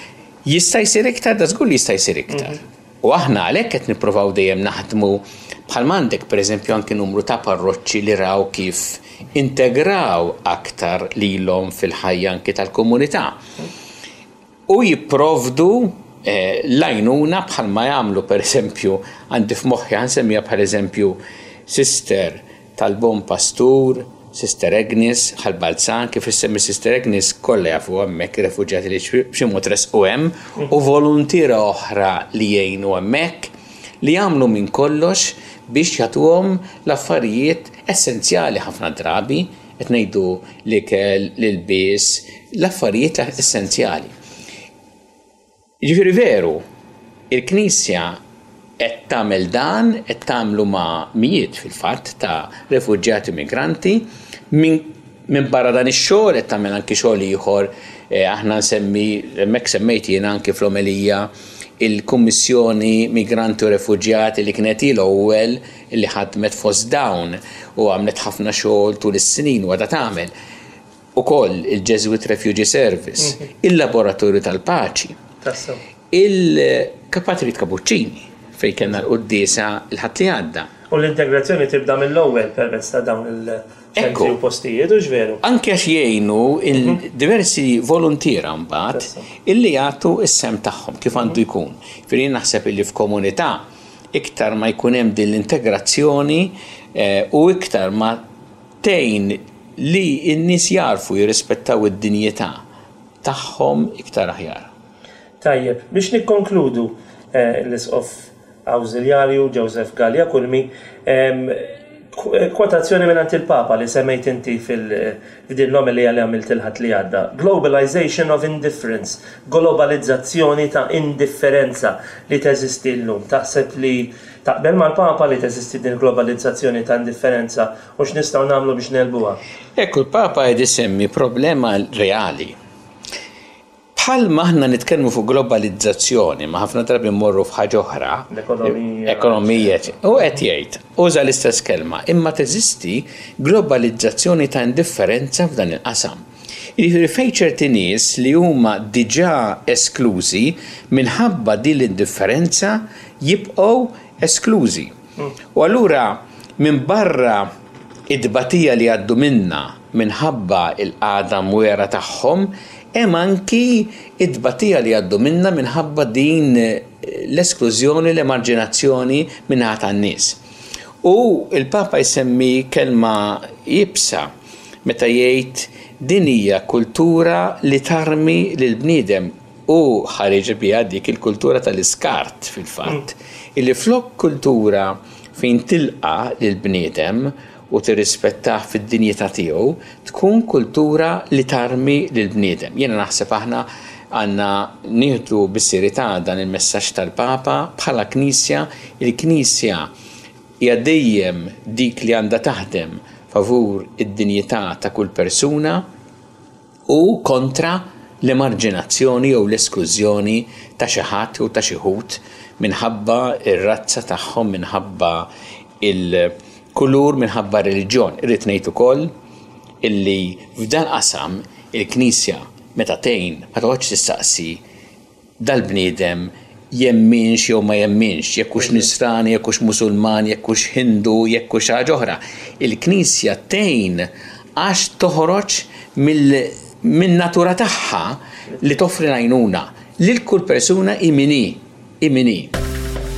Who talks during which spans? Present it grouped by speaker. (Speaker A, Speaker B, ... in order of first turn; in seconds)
Speaker A: 0.5-13.4, 14.7-44.1, 45.8-46.6, 47.3-48.2, 48.8-61.3, 61.8-70.3, 71.2-75.2, 76.1-80.7, 84.0-84.3, 85.4-98.2, 98.8-102.6, 103.2-104.7, 129.8-132.6, 133.9-146.2, 146.8-154.9, 155.5-157.5, 158.1-170.4, 171.0-174.3, 174.8-199.9, 200.6-205.8, 206.9-215.3, 215.8-219.1, 219.8-224.6, 225.4-242.5
Speaker B: 75.4-75.8, 80.9-85.4, 88.9-89.2, 105.4-129.4, 138.3-139.8